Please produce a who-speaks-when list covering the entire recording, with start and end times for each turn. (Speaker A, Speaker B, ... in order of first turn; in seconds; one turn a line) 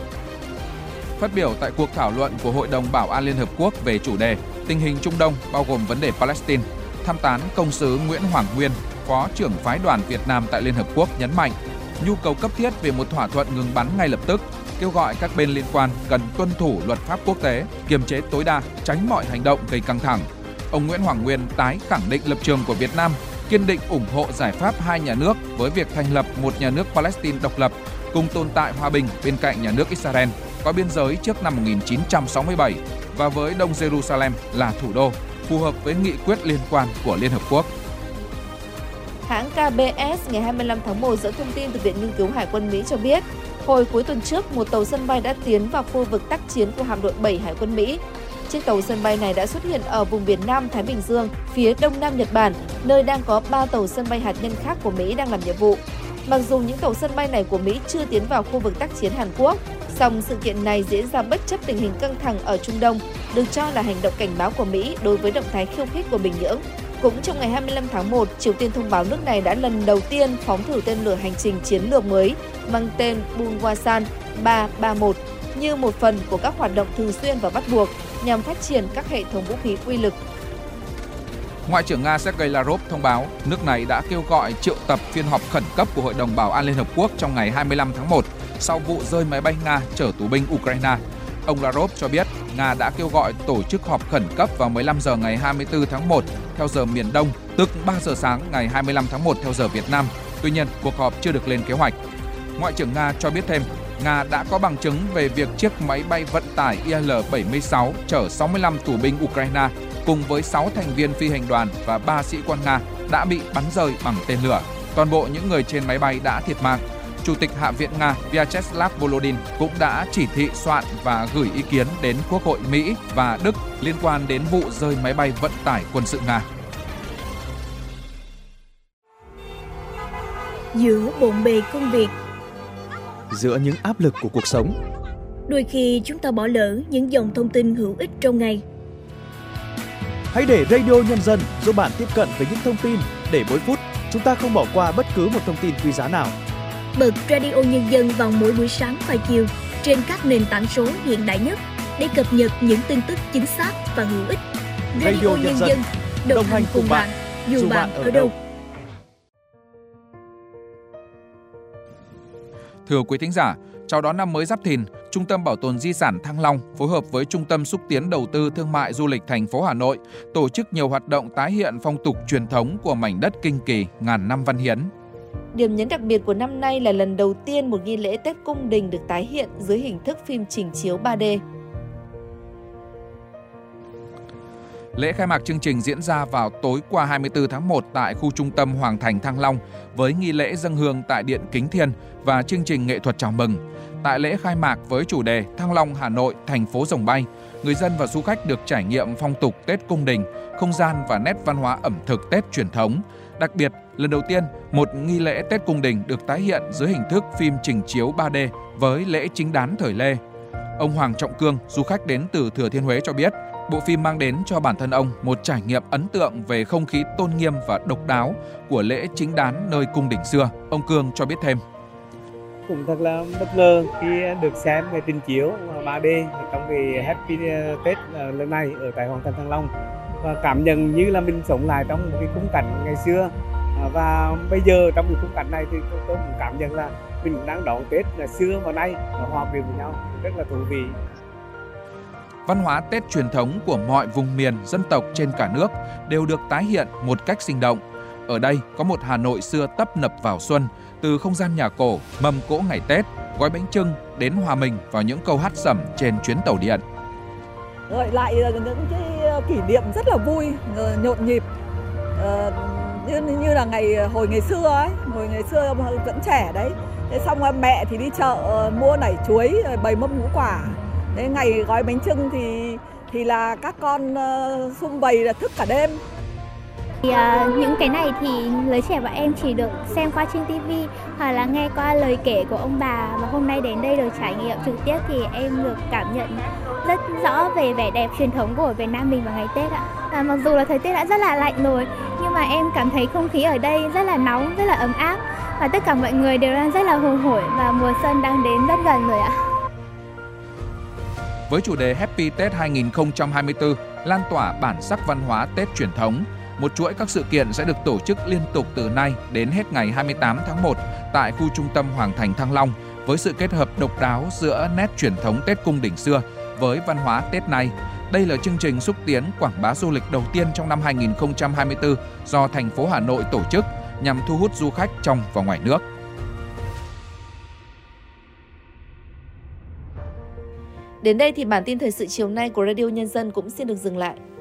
Speaker A: 1.2-37.7
Speaker B: 39.2-80.2
Speaker A: 81.7-101.9
Speaker A: 102.6-126.5
Speaker C: 130.7-132.1
Speaker D: 133.3-134.8
Speaker C: 135.5-138.6
Speaker D: 140.3-146.4
Speaker C: 146.9-158.3
Speaker D: 155.0-155.8
Speaker D: 156.3-158.3
Speaker A: 162.8-174.9
Speaker B: 175.5-181.4
Speaker A: 184.9-210.2
Speaker A: 210.8-221.6
Speaker E: 222.7-229.7
Speaker E: 230.2-241.0
Speaker A: 242.4-256.8
Speaker F: 257.9-261.4
Speaker F: 262.2-276.0
Speaker G: 277.0-299.3
Speaker A: 301.5-325.8
Speaker B: 331.0-334.2